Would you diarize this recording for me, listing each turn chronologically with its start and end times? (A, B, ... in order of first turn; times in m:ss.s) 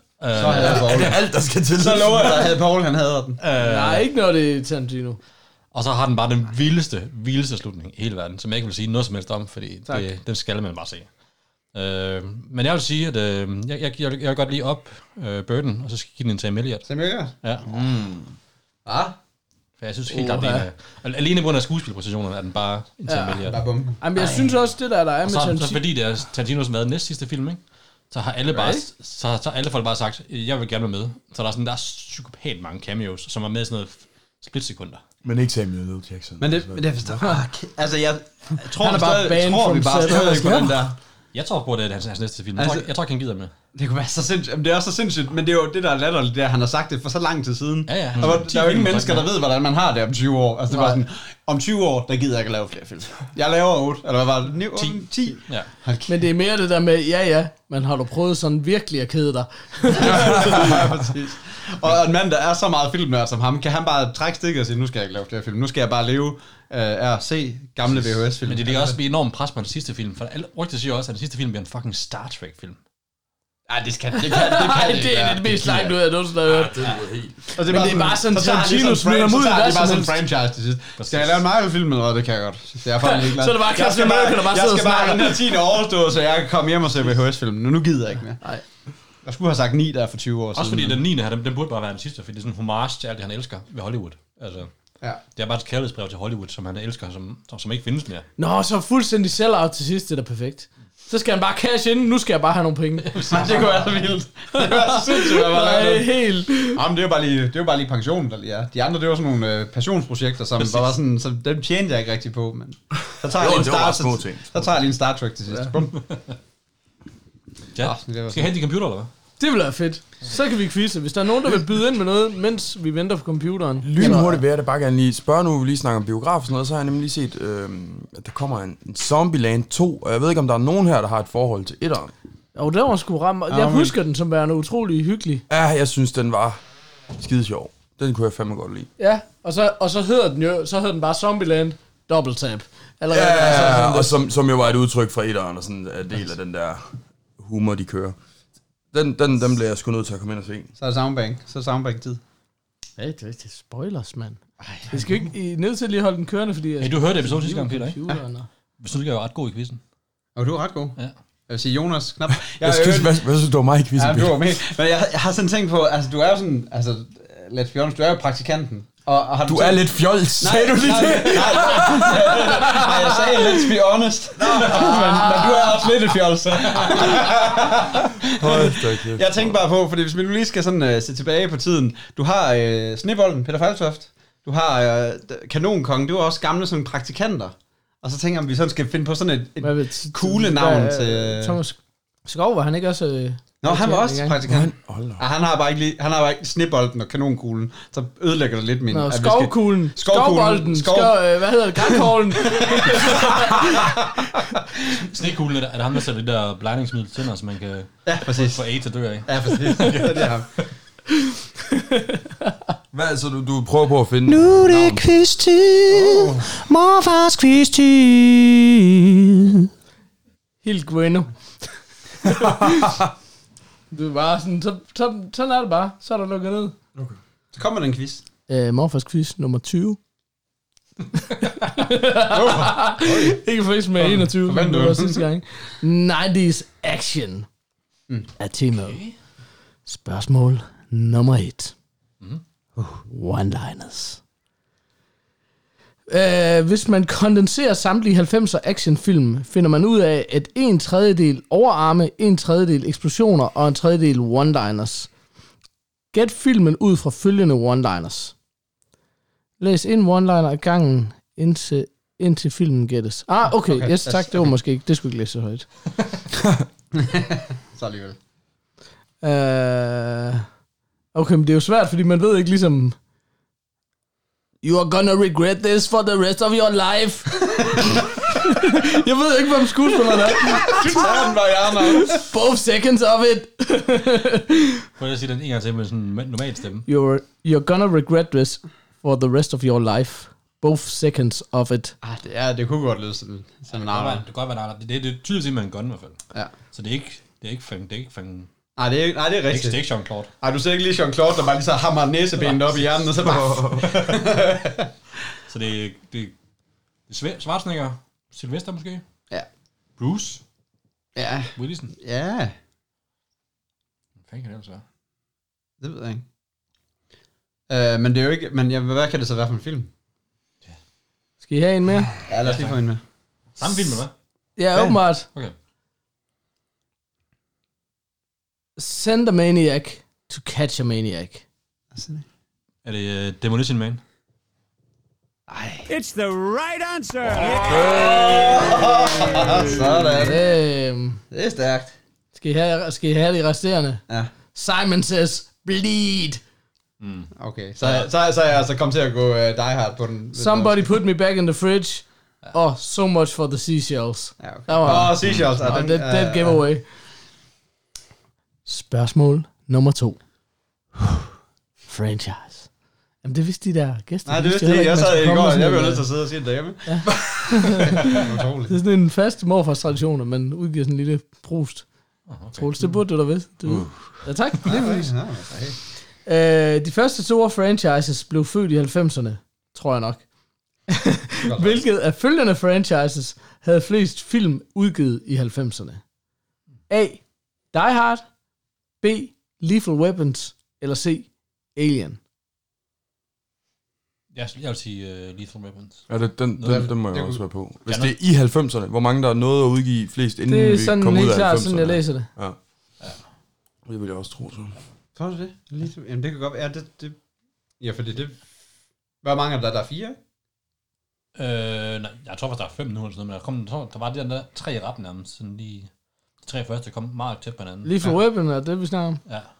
0:00.2-0:01.1 A
0:00.3-0:03.4 B
0:00.4-0:02.5 C
0:03.4-0:04.1 A
0:03.6-0:05.2 D
0:05.7-0:11.1 A
0:11.7-0:16.9 A
0:16.8-0:17.3 B
0:17.7-0:18.3 C
0:18.8-0:19.2 B
0:19.8-0:23.6 A
0:20.1-0:20.6 D
0:23.1-0:23.4 D
0:23.4-0:24.0 B
0:24.0-0:25.8 D
0:25.2-0:35.0 A
0:28.5-0:28.8 D
0:35.2-0:36.9 C
0:36.4-0:41.0 B
0:38.6-0:40.8 D
0:41.3-0:43.5 A
0:42.6-0:42.9 B
0:43.7-0:56.1 B
0:47.9-0:49.3 A
0:50.7-0:51.0 D
0:54.8-0:55.7 A
0:56.1-1:00.7 D
0:59.9-1:09.0 B
1:00.3-1:00.7 C
1:08.4-1:12.8 A
1:13.7-1:16.0 B
1:14.1-1:16.8 D
1:16.5-1:17.4 C
1:17.5-1:20.2 D
1:17.5-1:28.4 B
1:21.0-1:21.4 A
1:23.0-1:25.7 D
1:29.2-1:31.0 B
1:30.5-1:34.7 A
1:35.3-1:38.3 A
1:38.4-1:43.4 D
1:43.1-1:56.0 B
1:44.5-1:46.8 D
1:53.1-1:54.8 C
1:57.7-1:59.1 A
1:57.8-1:58.5 B
1:59.4-2:04.4 D
2:03.8-2:12.1 C
2:12.5-2:15.4 D
2:13.5-2:14.0 B
2:15.5-2:16.6 C
2:17.1-2:18.9 C
2:19.0-2:24.2 D
2:23.1-2:28.2 C
2:28.9-2:30.7 C
2:30.8-2:32.2 B
2:33.0-2:38.5 D
2:34.6-2:34.9 A
2:36.8-2:38.0 A
2:38.8-2:39.8 A
2:40.4-2:41.0 B
2:41.5-2:43.2 B
2:42.6-2:44.6 C
2:44.0-3:11.6 B
2:49.5-2:52.5 C
2:51.4-2:52.9 D
2:54.6-2:55.8 D
2:58.3-2:59.4 C
3:09.6-3:14.4 D
3:13.6-3:21.2 B
3:14.4-3:15.2 C
3:18.9-3:23.9 D
3:21.7-3:25.0 B
3:24.9-3:30.2 A
3:28.0-3:28.6 B
3:29.2-3:30.5 B
3:31.3-3:32.6 D
3:32.9-3:35.1 C
3:34.3-3:39.6 E
3:35.9-3:36.5 B
3:40.6-3:41.3 D
3:42.2-3:43.0 D
3:42.4-3:43.0 C
3:43.9-3:46.8 D
3:47.5-3:48.2 B
3:48.5-3:50.0 D
3:51.4-3:57.5 D
3:52.2-3:53.4 B
3:54.0-3:55.3 B
3:58.4-3:59.0 D
3:58.8-3:59.1 A
3:59.8-4:01.7 D
4:03.0-4:04.2 D
4:06.1-4:15.1 D
4:16.1-4:18.3 D
4:19.6-4:25.7 D
4:23.7-4:24.5 B
4:26.4-4:26.6 C
4:26.9-4:28.2 B
4:29.2-4:30.4 D
4:31.1-4:33.0 D
4:34.6-4:41.1 D
4:37.6-4:38.0 B
4:40.5-4:42.3 B
4:41.9-4:44.8 D
4:45.0-4:46.8 A
4:46.9-4:52.0 D
4:52.0-4:54.3 B
4:53.7-4:58.5 A
4:58.8-4:59.8 B
4:59.5-5:00.3 A
5:00.4-5:04.9 B
5:02.4-5:03.8 A
5:03.3-5:03.8 C
5:05.5-5:06.3 A
5:07.1-5:09.0 A
5:10.0-5:10.4 A
5:11.2-5:12.5 B
5:11.6-5:11.9 A
5:14.2-5:14.8 A
5:15.8-5:16.2 B
5:17.7-5:19.9 B
5:21.4-5:22.1 D
5:22.3-5:23.0 B
5:22.3-5:22.8 A
5:23.6-5:24.1 A
5:24.6-5:25.3 D
5:28.8-5:31.4 D
5:31.9-5:32.2 B
5:32.8-5:34.0 A
5:35.5-5:35.9 B
5:35.9-5:38.4 F
5:37.7-5:40.4 B
5:40.2-5:41.2 D
5:41.3-5:42.0 B
5:42.3-5:46.4 D
5:47.0-5:48.1 A
5:47.3-5:50.9 B
5:50.3-5:56.9 D
5:54.4-5:56.6 B
5:55.2-5:55.5 A
5:58.6-6:00.2 D
6:01.9-6:02.7 D
6:03.2-6:06.1 D
6:04.2-6:08.8 B
6:06.8-6:11.9 D
6:12.3-6:12.7 A
6:12.5-6:15.1 D
6:13.6-6:14.2 C
6:14.6-6:15.8 B
6:16.2-6:20.2 D
6:20.9-6:26.0 D
6:21.4-6:21.8 B
6:26.9-6:28.3 D
6:29.0-6:32.2 D
6:34.3-6:36.9 A
6:36.1-6:42.6 C
6:37.1-6:37.4 B
6:37.9-6:38.1 A
6:40.5-6:42.3 D
6:43.8-6:44.8 C
6:45.2-6:47.2 B
6:47.8-6:48.4 B
6:49.2-6:50.2 B
6:51.4-6:55.9 A
6:56.4-6:57.9 A
6:57.8-6:59.2 D